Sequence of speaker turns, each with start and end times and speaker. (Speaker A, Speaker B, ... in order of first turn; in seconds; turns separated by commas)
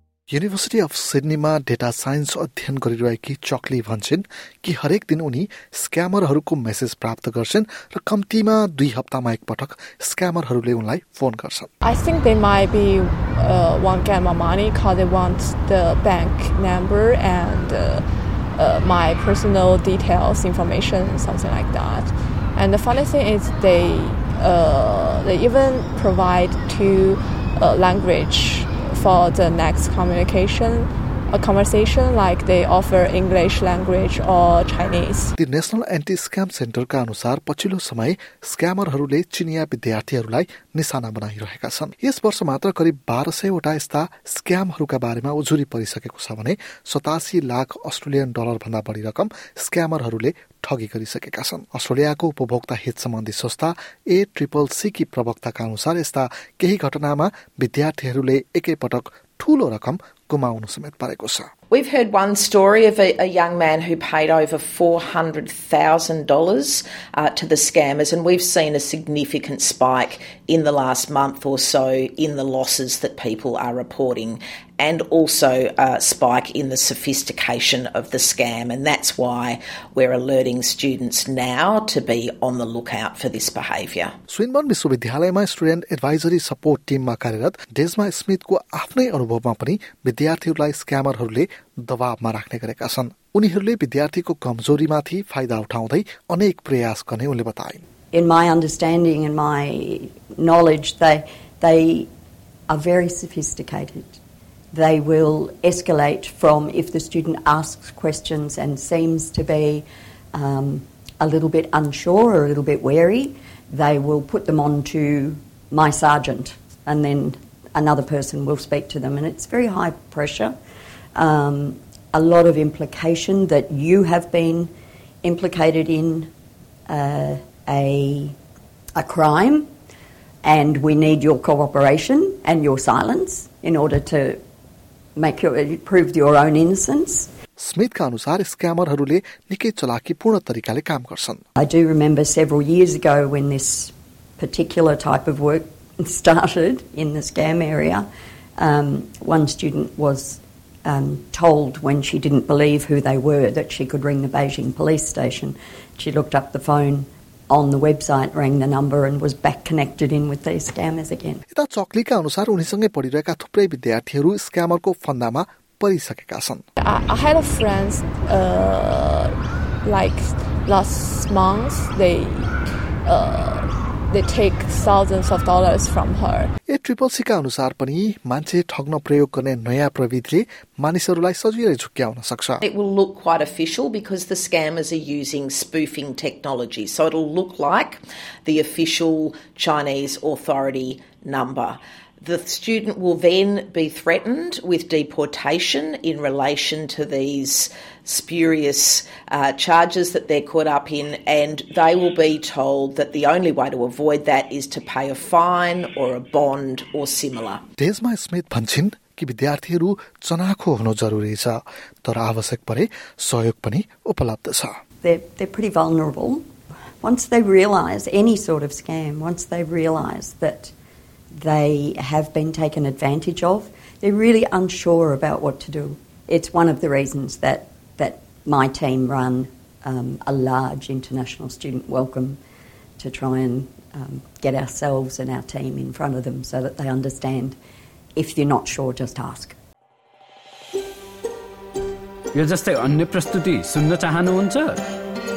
Speaker A: 0.3-11.7, Speaker B: 11.8-35.3, Speaker A: 35.4-61.5, Speaker C: 61.7-84.1, Speaker A: 84.3-97.8, Speaker D: 98.1-102.1, Speaker D: 102.7-104.2, Speaker D: 104.7-120.5, Speaker D: 121.1-124.7, Speaker D: 125.2-126.3, Speaker D: 126.9-128.3, Speaker D: 128.9-129.7, Speaker D: 130.4-134.4, Speaker D: 135.2-137.3, Speaker A: 137.6-141.4, Speaker D: 141.6-161.4, Speaker A: 161.5-166.6, Speaker B: 166.8-172.5, Speaker B: 173.0-176.5, Speaker A: 176.7-182.6, Speaker C: 182.6-207.6, Speaker A: 207.8-214.8, Speaker D: 215.0-216.4, Speaker D: 217.0-220.7, Speaker D: 221.3-232.4, Speaker D: 233.0-237.6, Speaker D: 238.2-239.6, Speaker E: 242.3-244.8